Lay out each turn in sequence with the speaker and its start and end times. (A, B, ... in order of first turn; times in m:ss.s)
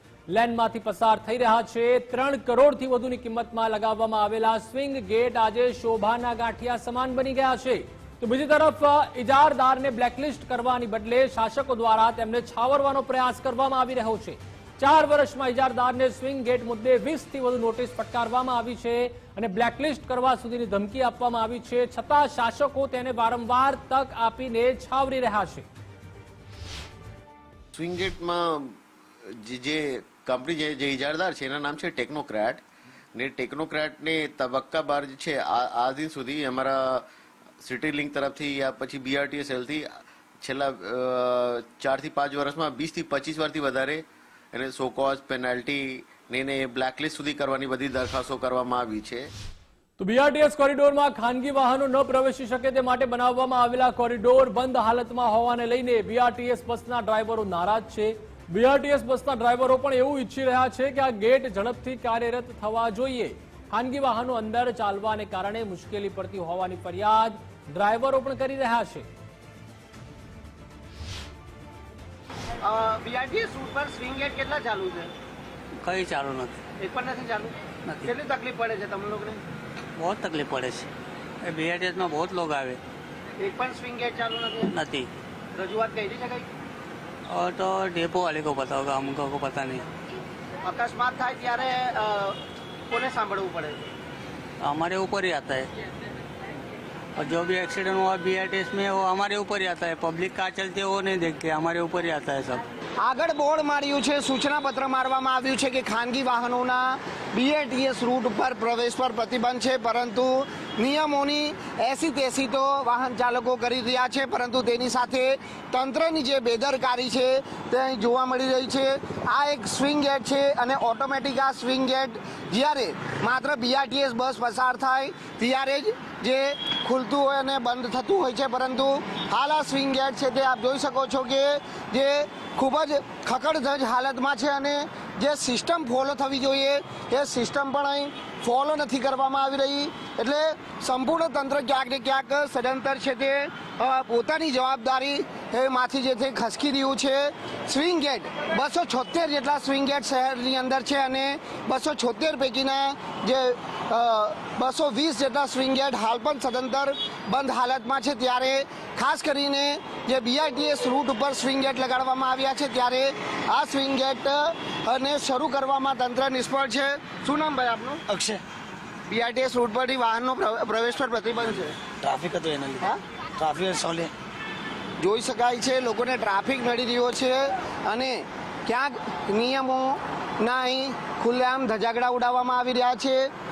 0:00.3-0:25.7 A
0:27.7-0:28.8 B
0:29.4-0:32.6 B
0:33.2-0:37.1 B
0:37.6-0:39.9 B
0:40.4-0:49.3 B
0:50.0-1:09.1 A
1:12.6-1:15.1 C
1:15.8-1:16.6 D
1:16.8-1:19.4 C
1:17.9-1:18.1 D
1:20.0-1:20.9 D
1:21.4-1:22.8 D
1:23.4-1:24.7 C
1:24.7-1:25.1 D
1:25.6-1:26.5 C
1:27.3-1:29.9 D
1:30.6-1:32.4 C
1:32.9-1:33.9 C
1:34.6-1:35.7 D
1:37.2-1:42.6 D
1:43.0-2:48.0 C
2:48.1-2:48.4 E
2:49.1-2:51.8 C
2:51.8-2:54.1 E
2:55.0-3:03.3 C